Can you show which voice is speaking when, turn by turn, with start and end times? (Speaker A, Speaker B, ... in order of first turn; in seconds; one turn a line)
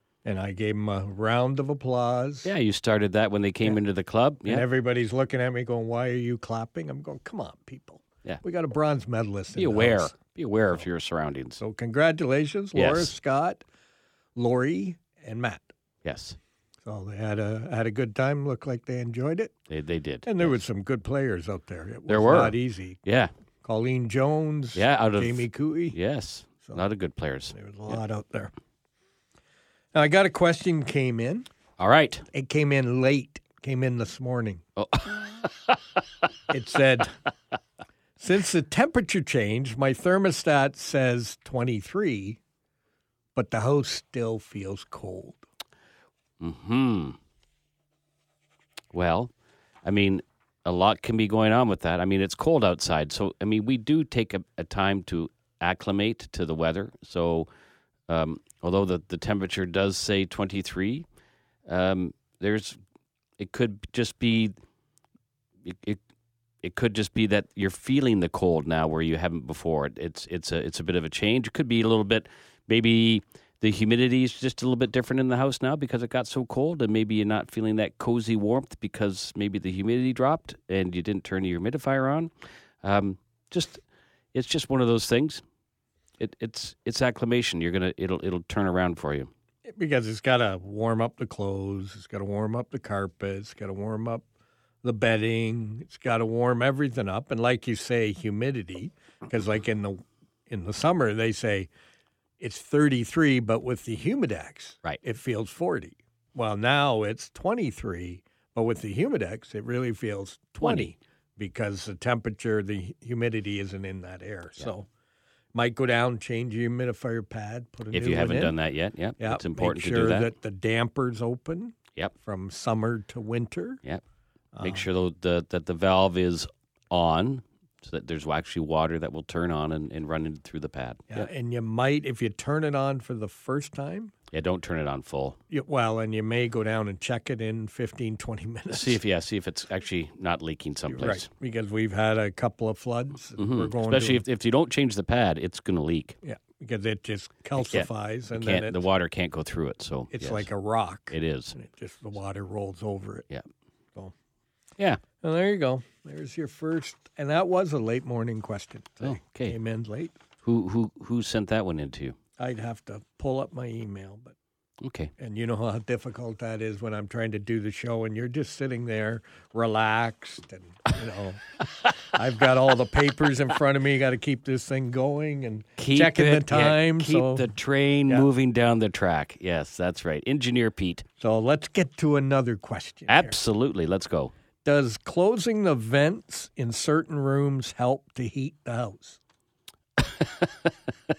Speaker A: 0.2-2.5
Speaker B: 2.5-4.7
Speaker A: 4.5-10.1
Speaker B: 9.6-11.6
Speaker A: 11.6-13.6
Speaker B: 12.8-13.1
Speaker A: 14.4-15.7
Speaker B: 16.1-16.4
Speaker A: 16.9-19.5
Speaker B: 19.7-20.5
Speaker A: 20.2-23.0
Speaker B: 22.1-23.3
Speaker A: 23.6-26.0
Speaker B: 24.8-28.0
Speaker A: 27.5-28.5
Speaker A: 29.9-31.5
Speaker B: 31.8-32.3
Speaker A: 32.3-34.6
Speaker B: 34.8-35.8
Speaker A: 36.5-37.1
Speaker A: 38.2-42.4
Speaker A: 43.4-45.4
Speaker B: 46.4-47.2
Speaker B: 48.9-49.3
Speaker B: 49.8-57.5
Speaker B: 58.1-61.0
Speaker B: 61.7-62.8
Speaker B: 63.4-64.5
Speaker B: 65.7-66.0
Speaker B: 66.6-82.3
Speaker B: 82.8-83.8
Speaker B: 84.3-85.4
Speaker B: 86.2-89.3
Speaker A: 89.7-94.2
Speaker A: 94.8-101.7
Speaker A: 102.4-114.9
Speaker B: 110.6-110.9
Speaker A: 115.5-118.5
Speaker B: 117.9-120.3
Speaker A: 119.2-123.8
Speaker A: 124.5-124.8
Speaker B: 124.6-131.3
Speaker A: 131.1-134.1
Speaker B: 134.3-135.4
Speaker A: 135.5-139.0
Speaker B: 138.7-141.3
Speaker A: 140.9-144.2
Speaker B: 143.4-146.2
Speaker A: 146.2-148.8
Speaker B: 147.6-150.5
Speaker A: 150.1-153.3
Speaker B: 151.1-151.6
Speaker A: 155.2-160.1
Speaker B: 159.0-159.6
Speaker B: 160.4-162.2
Speaker A: 162.4-164.3
Speaker B: 164.8-165.1
Speaker A: 165.2-177.5
Speaker B: 175.8-181.1
Speaker A: 181.2-183.4
Speaker B: 183.1-184.3
Speaker A: 184.7-189.2
Speaker B: 190.0-190.7